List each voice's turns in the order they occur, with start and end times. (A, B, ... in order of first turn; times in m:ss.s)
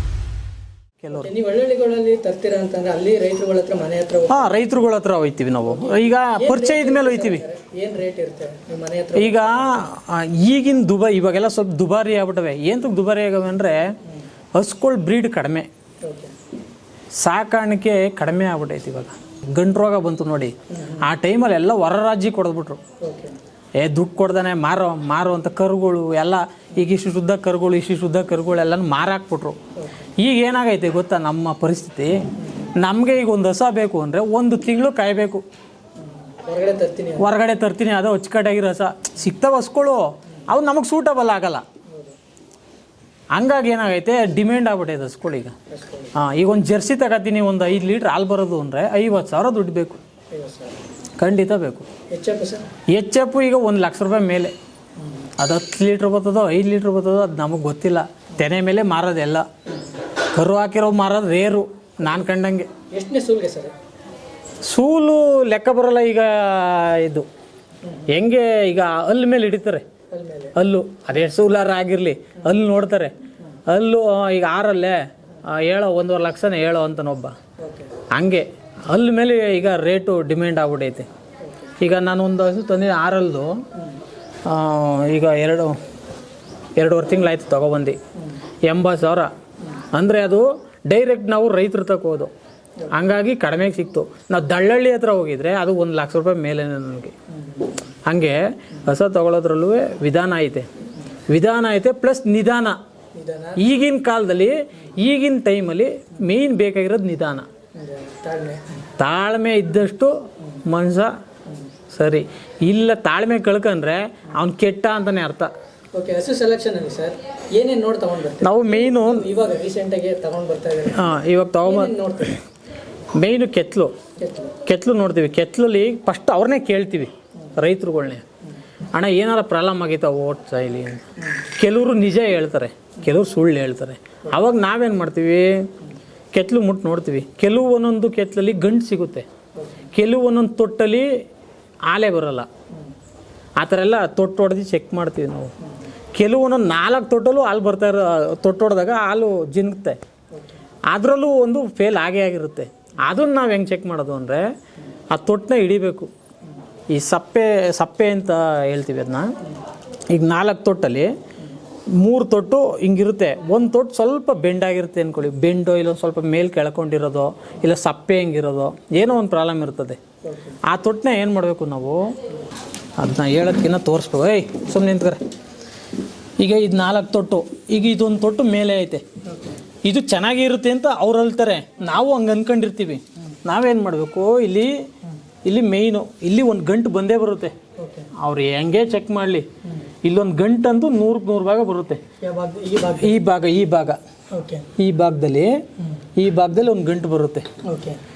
0:01.0-0:01.3 A
0:01.1-0:04.6 B
0:04.3-0:07.4 A
0:05.7-0:09.8 B
0:09.1-0:13.9 A
0:14.5-0:15.7 A
0:16.0-0:16.3 B
0:17.2-0:22.8 A
0:20.7-0:21.0 B
0:23.0-0:23.4 B
0:23.8-0:29.6 A
0:29.8-0:30.1 B
0:30.2-0:32.2 A
0:32.8-0:35.4 A
0:36.0-0:37.3 B
0:37.2-0:41.6 A
0:41.9-0:42.2 B
0:43.3-0:45.5 A
0:45.7-0:46.1 B
0:46.1-0:50.0 A
0:50.3-0:50.8 B
0:51.2-0:51.9 A
0:52.1-0:52.7 B
0:52.9-0:54.5 A
0:55.4-0:59.5 A
1:00.3-1:02.7 A
1:02.9-1:03.7 B
1:04.7-1:07.2 A
1:08.1-1:09.8 A
1:10.1-1:10.6 B
1:10.5-1:13.1 A
1:13.7-1:17.3 A
1:17.6-1:17.9 B
1:18.1-1:21.1 A
1:21.4-1:21.7 B
1:21.8-1:23.6 A
1:24.4-1:25.8 A
1:26.8-1:28.0 A
1:28.6-1:32.3 A
1:32.9-1:37.1 A
1:37.4-1:37.7 B
1:38.0-1:40.7 A
1:41.3-1:42.8 A
1:43.1-1:43.6 B
1:43.6-1:47.5 A
1:47.7-1:48.8 B
1:49.0-1:51.1 A
1:51.9-1:55.5 A
1:55.9-2:02.4 B
1:58.4-1:59.3 A
2:00.9-2:02.4 A
2:03.1-2:03.9 A
2:04.2-2:04.5 B
2:04.6-2:08.2 A
2:08.9-2:15.7 A
2:16.3-2:19.3 A
2:19.6-2:19.8 B
2:19.9-2:21.2 A
2:21.9-2:22.5 A
2:23.6-2:25.5 A
2:26.1-2:30.0 A
2:30.9-2:34.5 A
2:35.1-2:36.1 A
2:36.9-2:39.4 A
2:40.1-2:41.1 A
2:41.9-2:50.0 A
2:50.3-2:50.6 B
2:50.6-2:52.1 A
2:53.0-2:55.2 A
2:56.4-2:59.0 A
2:59.3-2:59.6 B
2:59.8-3:04.8 A
3:05.4-3:07.5 A
3:07.8-3:08.1 B
3:08.1-3:09.5 A
3:09.6-3:09.9 B
3:10.0-3:12.0 A
3:12.2-3:13.2 B
3:13.0-3:14.0 A
3:14.3-3:14.7 B
3:14.8-3:15.6 A
3:16.1-3:17.5 A
3:17.6-3:18.0 B